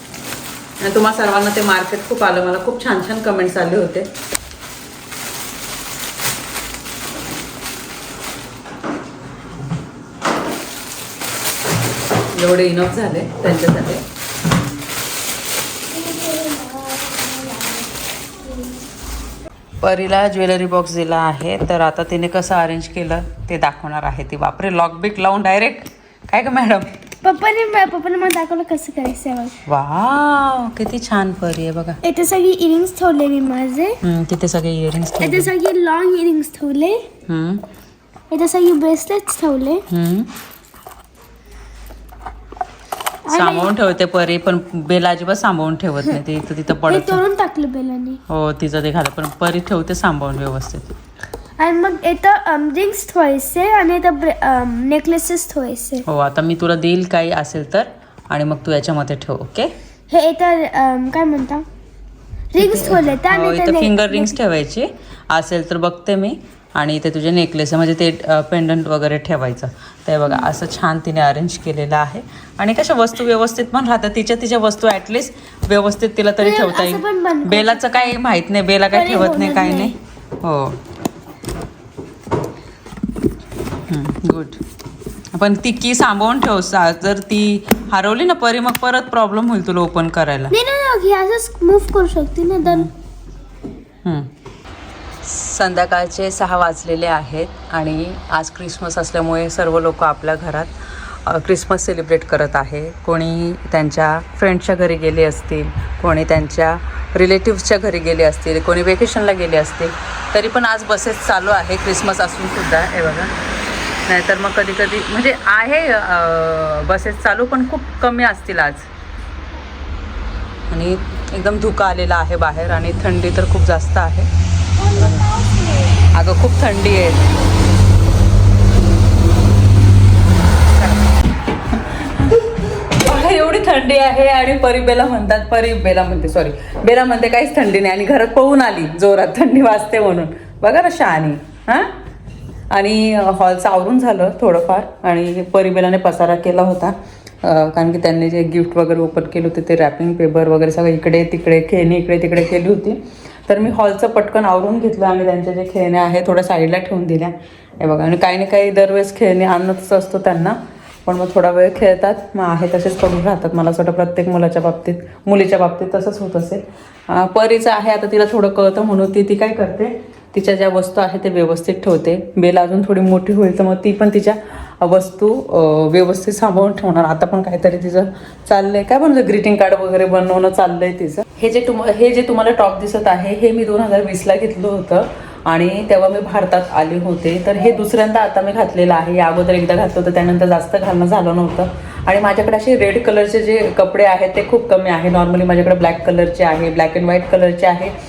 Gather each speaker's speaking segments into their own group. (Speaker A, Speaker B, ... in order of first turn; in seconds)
Speaker A: 0.8-4.1, 12.3-14.0, 19.8-26.9, 29.7-32.0, 34.0-35.5, 37.3-37.6, 39.9-40.3, 43.3-47.2, 48.3-50.9, 56.0-59.7, 62.6-80.8, 83.9-84.6, 85.3-90.5, 92.6-92.9, 94.0-94.3, 95.2-113.3, 114.1-118.9, 120.7-124.3, 124.9-125.2, 126.1-127.2, 132.0-141.9, 142.7-197.9
Speaker B: 15.9-18.8, 27.2-29.5, 32.0-34.0, 35.2-37.0, 38.3-39.8, 43.3-43.7, 46.9-48.2, 51.6-56.0, 60.1-61.6, 62.5-64.3, 76.4-78.2, 78.9-79.9, 90.5-92.9, 124.8-125.9